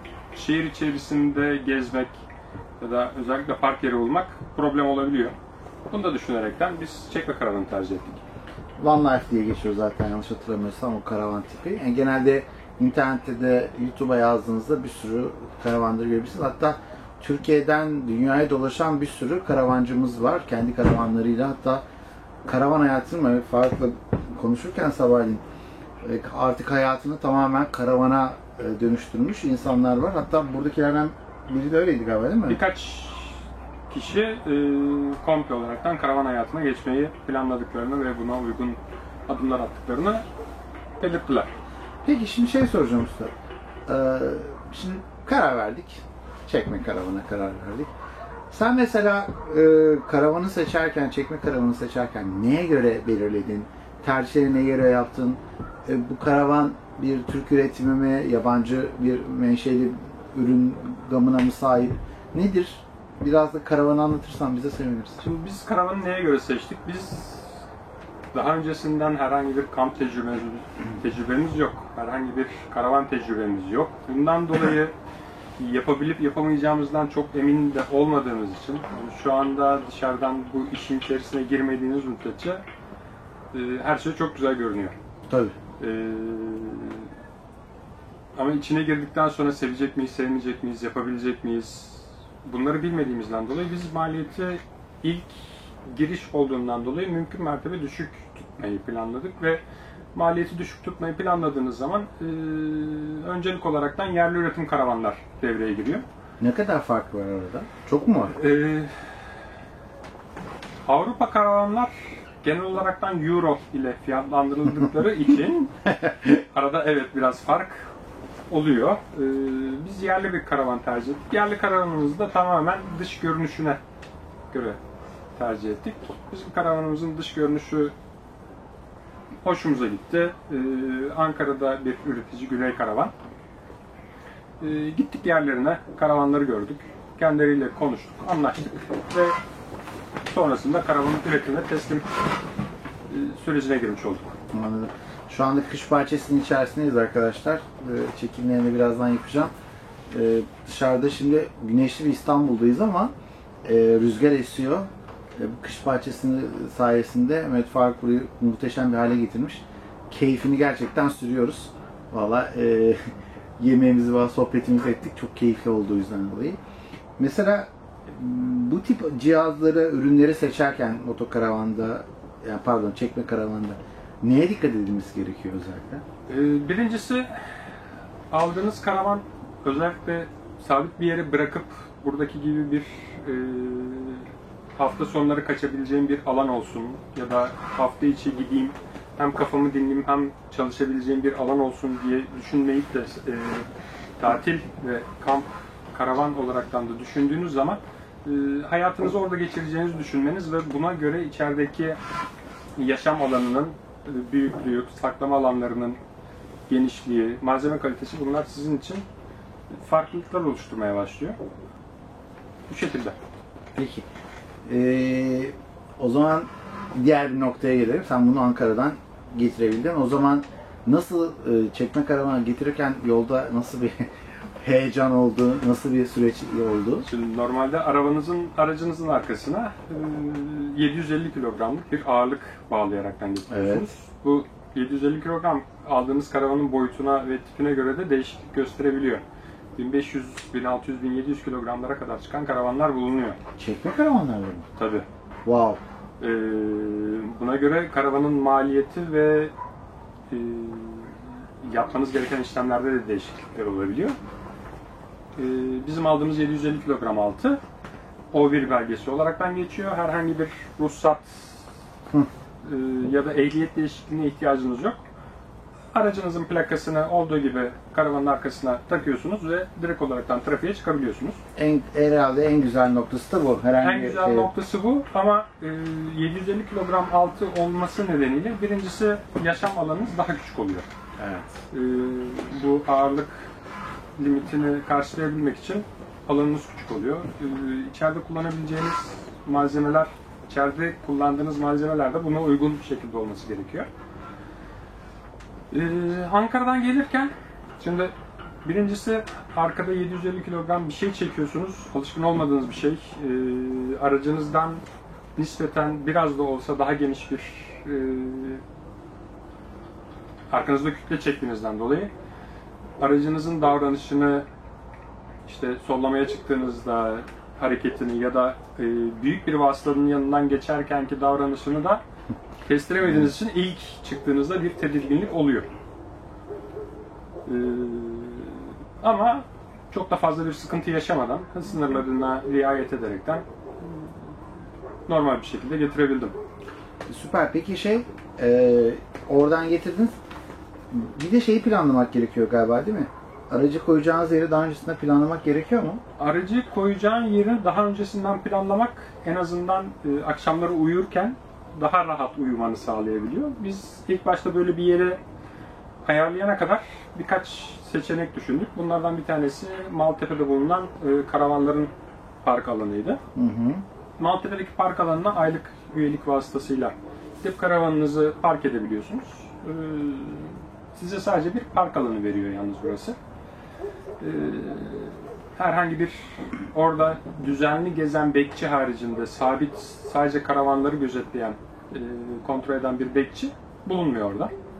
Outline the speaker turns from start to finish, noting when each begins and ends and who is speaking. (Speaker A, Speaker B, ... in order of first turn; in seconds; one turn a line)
Speaker A: 0.3-2.2
Speaker A: 2.8-5.3
Speaker A: 5.9-8.2
Speaker B: 8.8-21.8
Speaker B: 22.4-25.4
Speaker B: 26.0-32.6
Speaker A: 32.5-40.2
Speaker A: 41.0-41.5
Speaker B: 42.0-43.3
Speaker B: 43.9-47.9
Speaker B: 48.5-65.2
Speaker A: 65.2-67.6
Speaker A: 68.3-74.9
Speaker A: 75.6-82.6
Speaker A: 83.5-85.0
Speaker B: 85.3-85.5
Speaker A: 85.8-87.1
Speaker A: 88.4-99.6
Speaker A: 100.1-106.0
Speaker B: 106.4-108.3
Speaker A: 108.3-109.2
Speaker A: 110.8-115.7
Speaker A: 116.3-117.9
Speaker A: 118.5-123.8
Speaker A: 124.5-124.8
Speaker A: 125.3-127.9
Speaker A: 129.4-133.1
Speaker A: 134.6-139.4
Speaker A: 140.2-142.1
Speaker A: 143.1-144.3
Speaker B: 144.5-149.5
Speaker B: 150.1-153.1
Speaker B: 153.6-166.6
Speaker B: 167.2-176.0
Speaker A: 176.3-177.7
Speaker A: 178.3-193.7
Speaker A: 194.2-202.0
Speaker A: 202.8-206.0
Speaker A: 206.7-209.1
Speaker A: 209.7-211.4
Speaker A: 212.7-213.2
Speaker B: 213.7-214.1
Speaker B: 214.7-227.1
Speaker A: 227.1-239.2
Speaker B: 233.5-233.8
Speaker A: 239.8-243.4
Speaker B: 243.6-244.7
Speaker A: 244.8-245.1
Speaker B: 245.4-245.8
Speaker A: 246.2-249.5
Speaker A: 250.3-254.2
Speaker A: 255.3-257.6
Speaker A: 258.3-261.6
Speaker A: 262.6-265.0
Speaker A: 265.9-271.4
Speaker B: 271.6-274.5
Speaker A: 273.8-280.9
Speaker B: 281.2-281.5
Speaker A: 281.7-283.5
Speaker A: 284.2-293.9
Speaker A: 295.7-298.1
Speaker A: 298.6-304.8
Speaker A: 305.4-308.6
Speaker A: 310.5-312.1
Speaker A: 313.0-314.4
Speaker A: 315.5-322.0
Speaker A: 322.6-325.7
Speaker B: 323.0-323.3
Speaker A: 327.4-334.1
Speaker A: 335.1-336.4
Speaker B: 337.1-340.1
Speaker B: 340.9-346.0
Speaker A: 346.2-355.2
Speaker A: 356.0-361.9
Speaker A: 362.4-363.2
Speaker B: 363.3-363.8
Speaker A: 364.2-373.2
Speaker A: 374.2-384.5